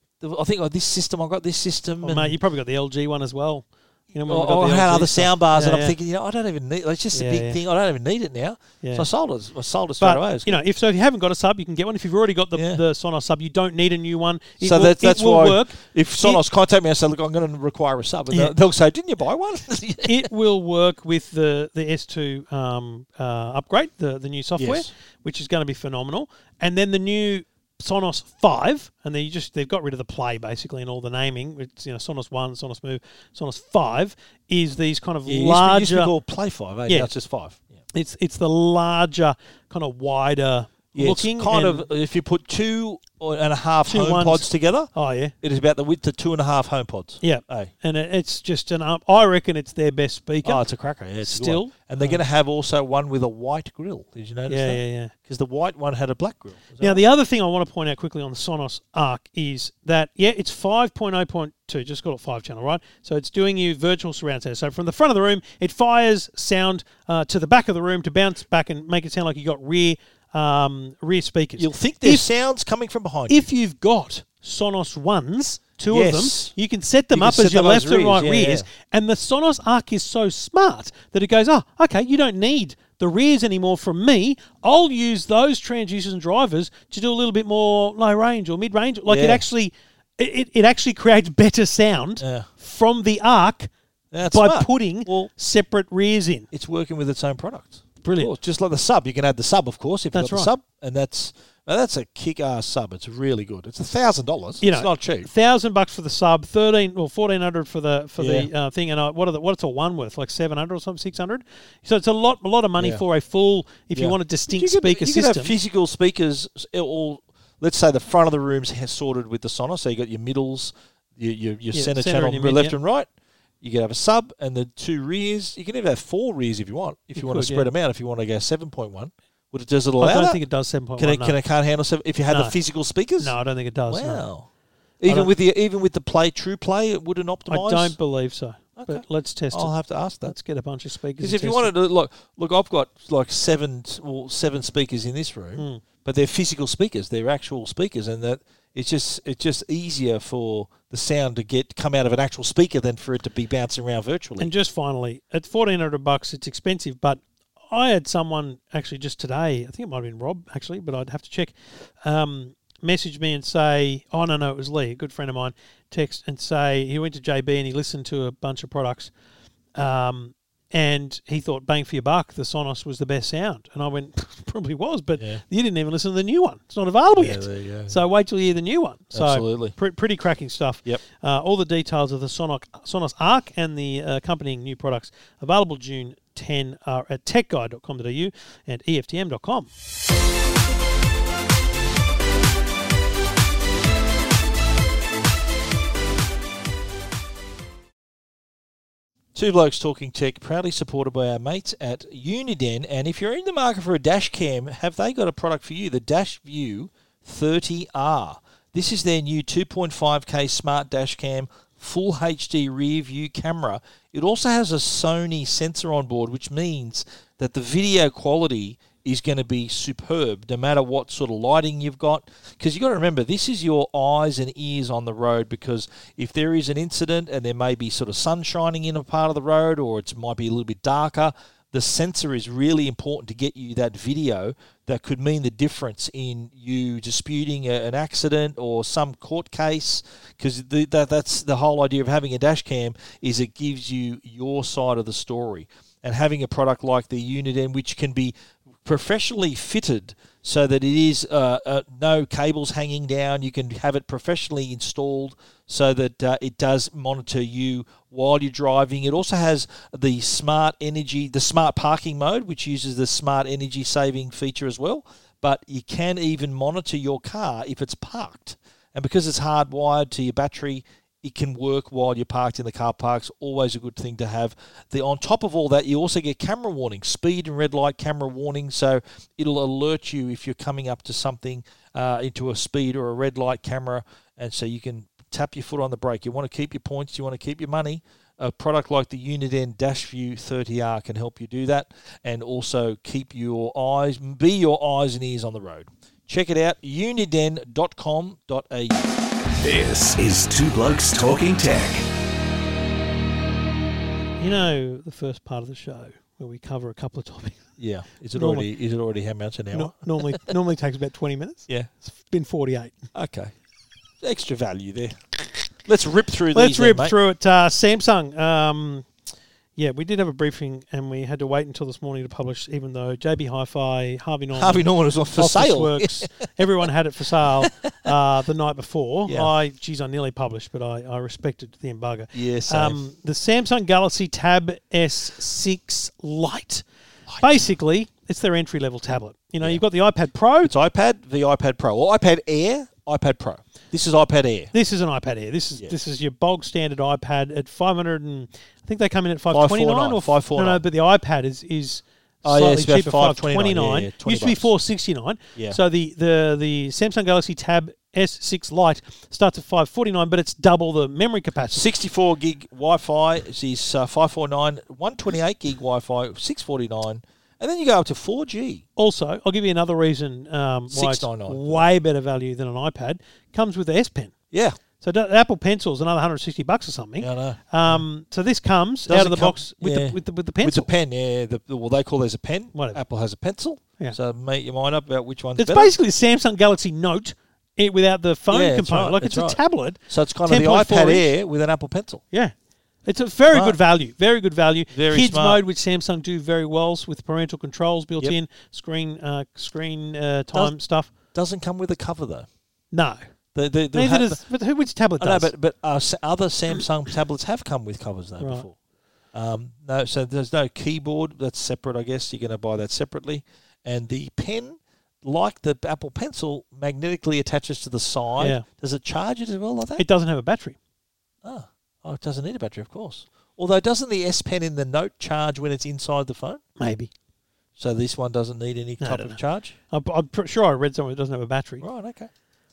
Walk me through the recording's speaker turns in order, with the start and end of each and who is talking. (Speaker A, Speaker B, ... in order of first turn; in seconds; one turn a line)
Speaker A: 0.2-2.4
Speaker B: 2.0-6.0
Speaker A: 4.2-10.6
Speaker B: 7.1-7.6
Speaker B: 10.0-16.4
Speaker A: 12.5-12.8
Speaker A: 14.6-20.2
Speaker B: 20.0-36.1
Speaker A: 24.6-24.9
Speaker A: 35.2-37.7
Speaker B: 36.9-37.1
Speaker B: 37.9-41.8
Speaker A: 40.9-47.7
Speaker B: 43.9-45.3
Speaker B: 47.2-50.6
Speaker A: 50.4-57.0
Speaker B: 51.2-52.2
Speaker B: 54.5-55.1
Speaker B: 56.8-72.3
Speaker A: 71.6-73.4
Speaker B: 73.3-93.7
Speaker A: 75.9-76.5
Speaker A: 77.1-78.7
Speaker A: 89.1-89.4
Speaker A: 92.2-92.5
Speaker A: 94.1-95.3
Speaker B: 94.3-96.5
Speaker A: 96.5-105.3
Speaker B: 98.0-98.3
Speaker B: 100.1-100.5
Speaker B: 104.6-115.5
Speaker A: 108.2-108.5
Speaker A: 112.8-113.0
Speaker A: 113.9-123.1
Speaker B: 121.7-122.8
Speaker A: 123.6-130.4
Speaker B: 127.1-127.7
Speaker B: 130.0-131.4
Speaker A: 131.0-133.3
Speaker B: 132.3-132.6
Speaker B: 133.2-134.2
Speaker A: 133.9-134.5
Speaker A: 135.0-137.9
Speaker B: 137.5-139.7
Speaker A: 138.8-140.3
Speaker B: 140.2-141.7
Speaker A: 141.2-154.5
Speaker B: 145.6-145.8
Speaker B: 154.4-169.1
Speaker B: 169.7-189.7
Speaker A: 175.2-175.4
Speaker A: 177.1-178.0
Speaker A: 179.1-179.8
Speaker A: 199.3-299.1
Speaker C: 299.5-302.0
Speaker B: 304.4-307.6
Speaker A: 307.8-310.5
Speaker B: 308.3-308.7
Speaker B: 309.7-313.1
Speaker A: 313.1-313.5
Speaker A: 314.2-317.1
Speaker B: 316.5-319.1
Speaker B: 319.8-324.8
Speaker A: 324.5-326.5
Speaker B: 325.3-336.8
Speaker A: 327.6-327.9
Speaker A: 332.3-333.0
Speaker B: 337.4-340.7
Speaker A: 340.6-344.7
Speaker B: 344.7-361.9
Speaker A: 349.5-350.8
Speaker A: 352.4-354.7
Speaker A: 361.7-368.8
Speaker B: 369.0-374.3
Speaker A: 370.9-371.8
Speaker A: 374.5-374.8
Speaker B: 375.0-380.9
Speaker A: 377.2-378.0
Speaker A: 379.1-385.9
Speaker B: 382.7-383.0
Speaker B: 385.6-391.3
Speaker A: 388.5-392.2
Speaker B: 392.3-401.1
Speaker A: 393.5-393.8
Speaker A: 394.9-395.6
Speaker A: 401.3-402.5
Speaker B: 402.9-403.2
Speaker A: 403.5-404.4
Speaker B: 403.9-405.5
Speaker A: 405.2-408.7
Speaker B: 408.4-408.7
Speaker A: 409.3-420.0
Speaker B: 418.4-418.6
Speaker B: 420.0-420.8
Speaker A: 421.4-426.6
Speaker B: 426.8-427.1
Speaker A: 427.8-429.8
Speaker B: 429.0-429.4
Speaker B: 429.9-431.8
Speaker A: 431.8-432.3